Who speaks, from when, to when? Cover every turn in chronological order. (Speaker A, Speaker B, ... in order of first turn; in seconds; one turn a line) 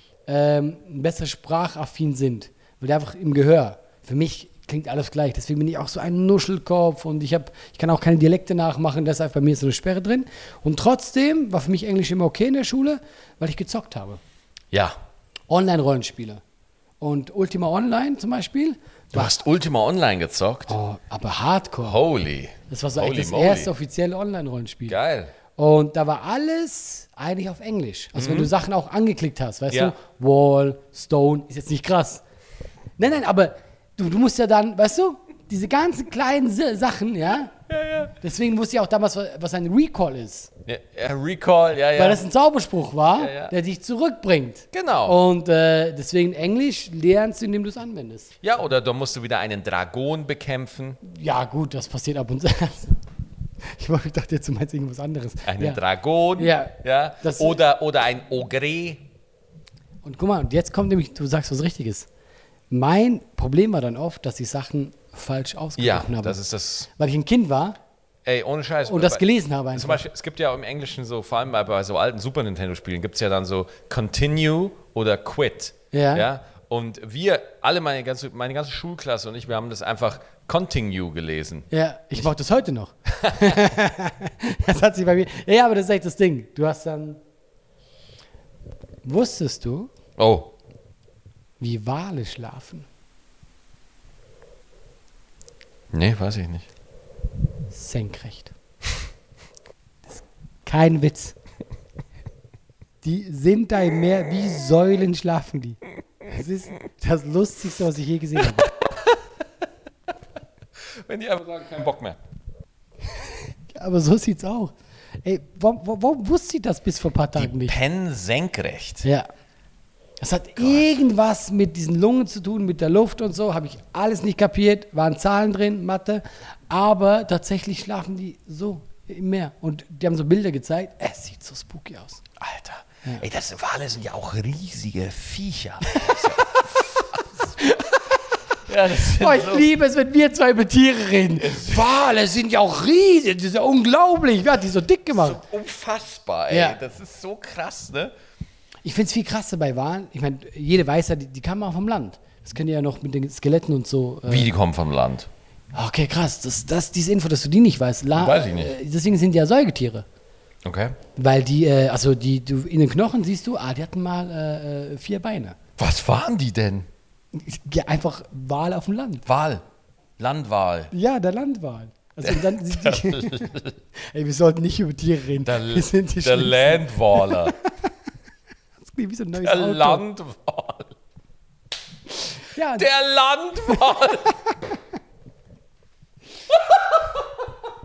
Speaker A: 0.3-14.2
Speaker A: 15.5-16.4
Speaker A: 17.0-19.3
Speaker B: 19.1-20.8
Speaker A: 20.7-22.0
Speaker B: 21.8-23.7
Speaker A: 22.7-25.0
Speaker B: 24.9-25.3
Speaker A: 25.6-32.2
Speaker B: 28.1-28.5
Speaker A: 33.0-37.5
Speaker B: 37.7-38.1
Speaker A: 38.2-40.5
Speaker B: 40.7-42.2
Speaker A: 42.0-48.3
Speaker B: 43.2-43.5
Speaker B: 44.7-45.2
Speaker B: 48.4-51.0
Speaker A: 51.0-53.0
Speaker A: 53.6-55.8
Speaker B: 55.5-59.0
Speaker A: 56.4-57.6
Speaker A: 60.0-62.1
Speaker A: 62.7-66.4
Speaker B: 65.8-66.9
Speaker A: 67.0-67.8
Speaker B: 68.2-81.7
Speaker A: 68.9-70.0
Speaker A: 75.9-76.3
Speaker A: 81.7-87.2
Speaker B: 83.2-83.6
Speaker A: 89.0-89.9
Speaker B: 90.2-90.5
Speaker A: 91.6-92.9
Speaker B: 95.9-96.7
Speaker A: 97.7-98.5
Speaker A: 100.1-101.4
Speaker A: 103.0-108.7
Speaker B: 108.5-109.2
Speaker B: 110.8-112.2
Speaker A: 113.1-117.8
Speaker B: 117.4-119.1
Speaker A: 120.2-132.2
Speaker B: 132.4-137.6
Speaker A: 135.9-136.4
Speaker A: 137.6-138.4
Speaker B: 138.6-139.7
Speaker A: 138.9-145.4
Speaker B: 141.4-141.9
Speaker B: 145.1-148.1
Speaker A: 146.5-146.8
Speaker A: 148.8-154.5
Speaker B: 154.2-155.3
Speaker A: 155.7-160.1
Speaker B: 158.1-158.7
Speaker B: 160.6-161.0
Speaker A: 161.2-165.6
Speaker B: 165.8-166.9
Speaker A: 167.3-169.3
Speaker B: 169.3-169.6
Speaker B: 170.2-170.9
Speaker A: 170.9-177.9
Speaker B: 172.2-173.8
Speaker B: 175.4-177.6
Speaker A: 178.8-180.0
Speaker B: 179.4-180.9
Speaker A: 182.5-182.9
Speaker B: 182.7-184.4
Speaker A: 183.7-183.9
Speaker B: 186.5-187.5